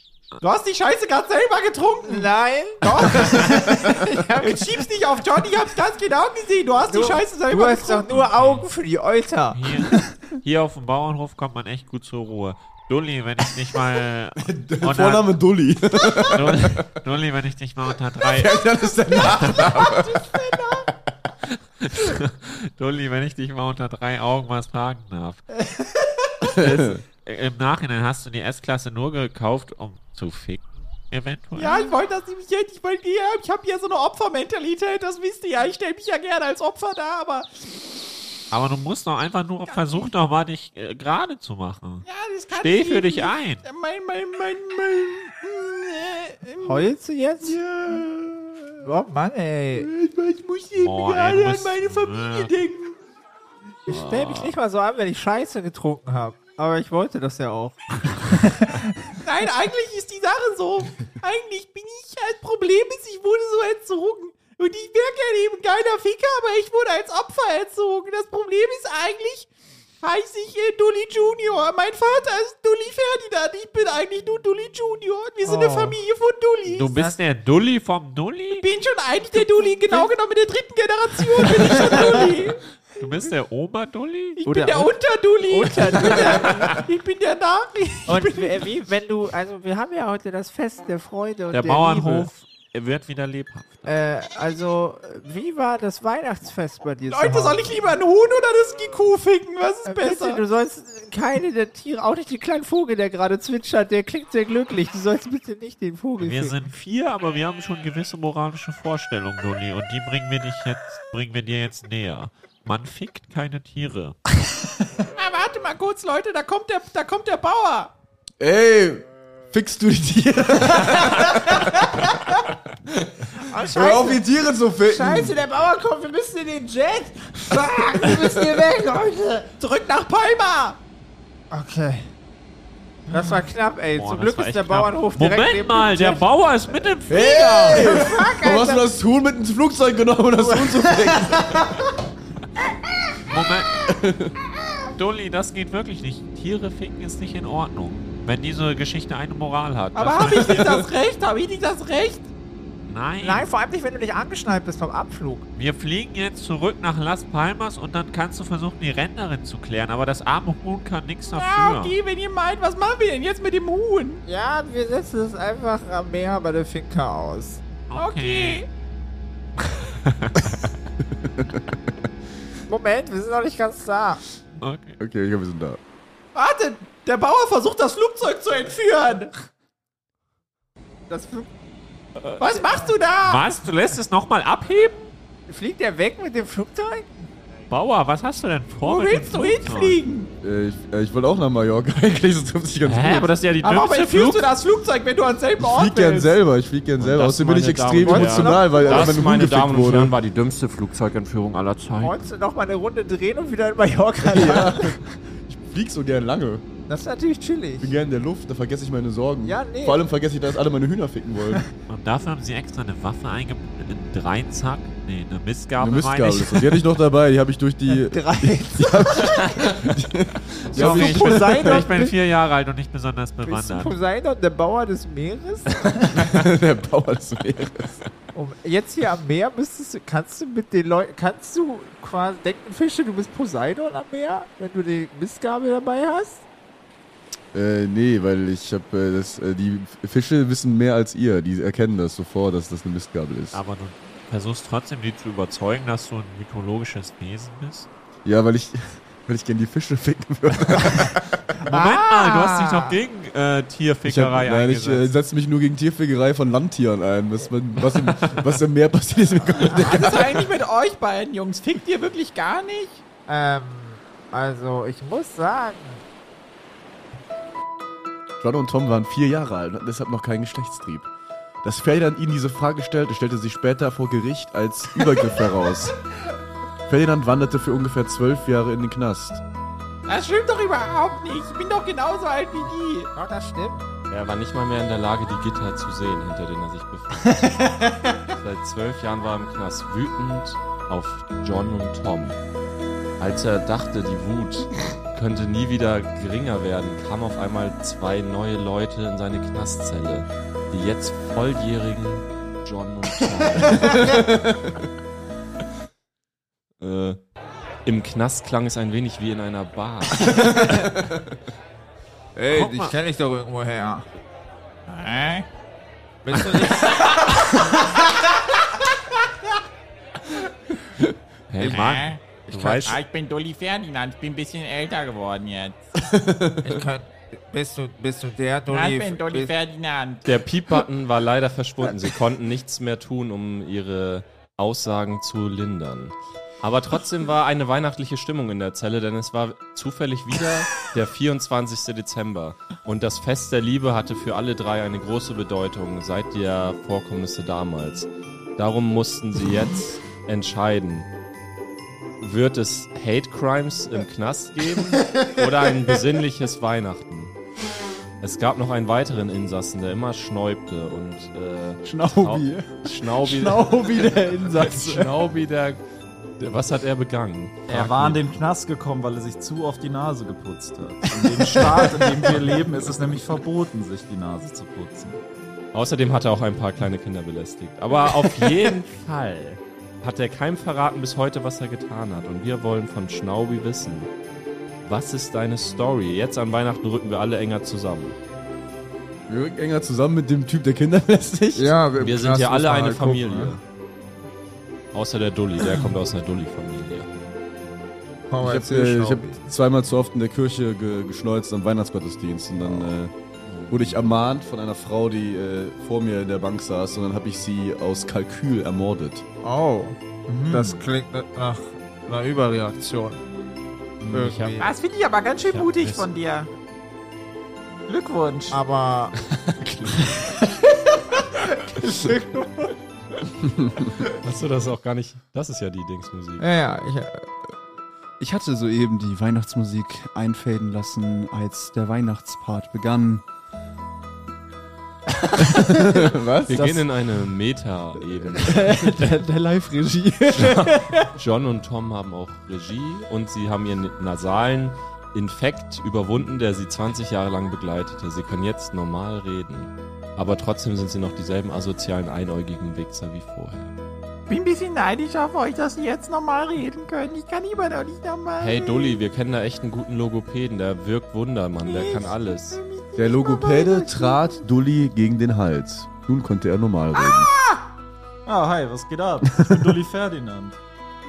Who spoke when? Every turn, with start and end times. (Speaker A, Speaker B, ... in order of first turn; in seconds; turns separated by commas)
Speaker A: 0.4-2.2, Speaker B: 2.1-4.8, Speaker A: 2.8-8.1, Speaker B: 6.9-9.6, Speaker C: 8.1-8.7, Speaker C: 9.5-15.4, Speaker D: 14.4-16.9, Speaker C: 16.2-19.8, Speaker D: 18.2-20.4, Speaker A: 19.2-20.9, Speaker C: 21.8-25.4, Speaker C: 26.5-31.9, Speaker D: 26.5-27.0, Speaker A: 31.6-37.5, Speaker C: 38.5-43.6, Speaker A: 39.7-40.0, Speaker A: 42.1-46.9, Speaker B: 46.6-47.6, Speaker A: 47.4-48.8, Speaker B: 48.8-49.9, Speaker A: 49.8-53.0, Speaker C: 50.8-52.5, Speaker B: 53.9-58.8, Speaker C: 53.9-54.5, Speaker A: 59.2-69.5, Speaker A: 70.0-76.9, Speaker B: 75.5-76.0, Speaker C: 76.7-78.7, Speaker A: 78.6-82.6, Speaker C: 83.0-84.4, Speaker A: 84.4-88.5, Speaker B: 84.5-86.8, Speaker C: 86.3-86.8, Speaker B: 88.1-92.3, Speaker C: 91.5-93.9, Speaker B: 93.9-97.7, Speaker A: 97.1-100.4, Speaker B: 99.9-106.6, Speaker C: 106.2-114.2, Speaker A: 115.2-117.9, Speaker D: 118.4-122.1, Speaker B: 123.4-124.2, Speaker D: 123.6-125.4, Speaker B: 124.8-129.5, Speaker A: 129.6-130.8, Speaker B: 131.5-132.1, Speaker B: 133.1-136.2, Speaker C: 134.0-138.1, Speaker D: 137.1-141.8, Speaker B: 137.6-138.9, Speaker B: 140.4-141.1, Speaker C: 143.2-143.9, Speaker D: 143.9-144.3, Speaker C: 144.9-150.8, Speaker A: 149.9-152.3, Speaker C: 152.9-153.5, Speaker B: 153.2-155.4, Speaker C: 155.6-162.0, Speaker A: 161.3-164.2, Speaker B: 164.3-167.6, Speaker C: 167.9-168.7, Speaker A: 167.9-168.7, Speaker C: 169.9-170.5, Speaker D: 171.2-171.6, Speaker B: 172.7-174.2, Speaker C: 174.6-175.0, Speaker D: 175.0-175.8, Speaker A: 176.3-179.3, Speaker B: 181.1-181.5, Speaker C: 182.2-182.5, Speaker A: 182.4-183.4, Speaker C: 183.2-185.1, Speaker B: 185.5-187.3, Speaker C: 187.7-190.0, Speaker A: 188.8-190.3, Speaker D: 190.4-193.3, Speaker C: 192.9-194.5, Speaker A: 193.6-196.3, Speaker D: 195.6-200.2, Speaker E: 197.0-202.1, Speaker B: 198.1-199.2, Speaker B: 202.0-205.0, Speaker D: 204.2-206.6, Speaker B: 206.9-207.9, Speaker D: 207.8-211.7, Speaker B: 209.4-210.0, Speaker C: 211.9-216.8, Speaker D: 215.8-221.9, Speaker B: 217.9-219.6, Speaker C: 220.7-224.0, Speaker B: 220.7-222.1, Speaker B: 223.4-226.0, Speaker D: 226.0-228.0, Speaker B: 228.3-236.4, Speaker D: 237.5-243.6, Speaker C: 243.5-247.9, Speaker D: 248.2-251.4, Speaker C: 251.7-255.1, Speaker B: 251.7-252.7, Speaker D: 254.1-260.5, Speaker A: 259.7-263.0, Speaker B: 263.3-266.0, Speaker D: 268.4-271.1, Speaker D: 271.6-276.0, Speaker D: 276.9-279.4, Speaker A: 280.1-283.1, Speaker B: 283.1-283.8, Speaker E: 284.1-287.6, Speaker E: 288.4-292.4, Speaker E: 293.2-304.3, Speaker D: 304.0-304.6, Speaker E: 306.8-307.2, Speaker E: 307.9-310.9, Speaker B: 312.4-314.1, Speaker C: 312.5-312.9, Speaker A: 314.9-315.4, Speaker B: 316.2-317.3, Speaker C: 321.5-323.0, Speaker E: 321.6-321.8, Speaker A: 321.7-322.2, Speaker E: 322.5-323.0, Speaker A: 322.9-325.8, Speaker D: 326.0-326.6, Speaker B: 326.6-329.5, Speaker A: 328.7-330.2, Speaker E: 330.2-351.1, Speaker E: 352.2-357.4, Speaker E: 358.2-365.8, Speaker F: 361.8-365.1, Speaker E: 366.4-368.3, Speaker G: 367.7-375.2, Speaker F: 371.2-372.2, Speaker E: 375.7-384.1, Speaker E: 384.8-388.2, Speaker D: 389.3-391.8, Speaker B: 391.6-393.5, Speaker E: 392.0-393.6, Speaker E: 394.9-397.1, Speaker B: 398.3-399.4, Speaker D: 398.4-403.1, Speaker E: 403.4-404.1, Speaker D: 403.7-409.2, Speaker B: 409.4-413.2, Speaker G: 410.3-410.8, Speaker E: 414.1-414.6, Speaker B: 414.1-414.7, Speaker A: 414.6-416.5, Speaker C: 415.6-415.9, Speaker A: 417.9-418.6, Speaker B: 418.5-419.1, Speaker E: 419.3-420.2, Speaker B: 421.7-422.7, Speaker E: 424.0-426.5, Speaker B: 426.4-427.2, Speaker F: 428.2-433.2, Speaker F: 435.2-436.9, Speaker D: 435.5-436.7, Speaker E: 436.5-439.1, Speaker F: 438.3-441.1, Speaker E: 440.3-453.7, Speaker A: 454.3-459.0, Speaker E: 458.4-462.6, Speaker A: 461.6-464.4, Speaker D: 463.0-467.3, Speaker A: 467.0-467.6, Speaker G: 468.3-470.6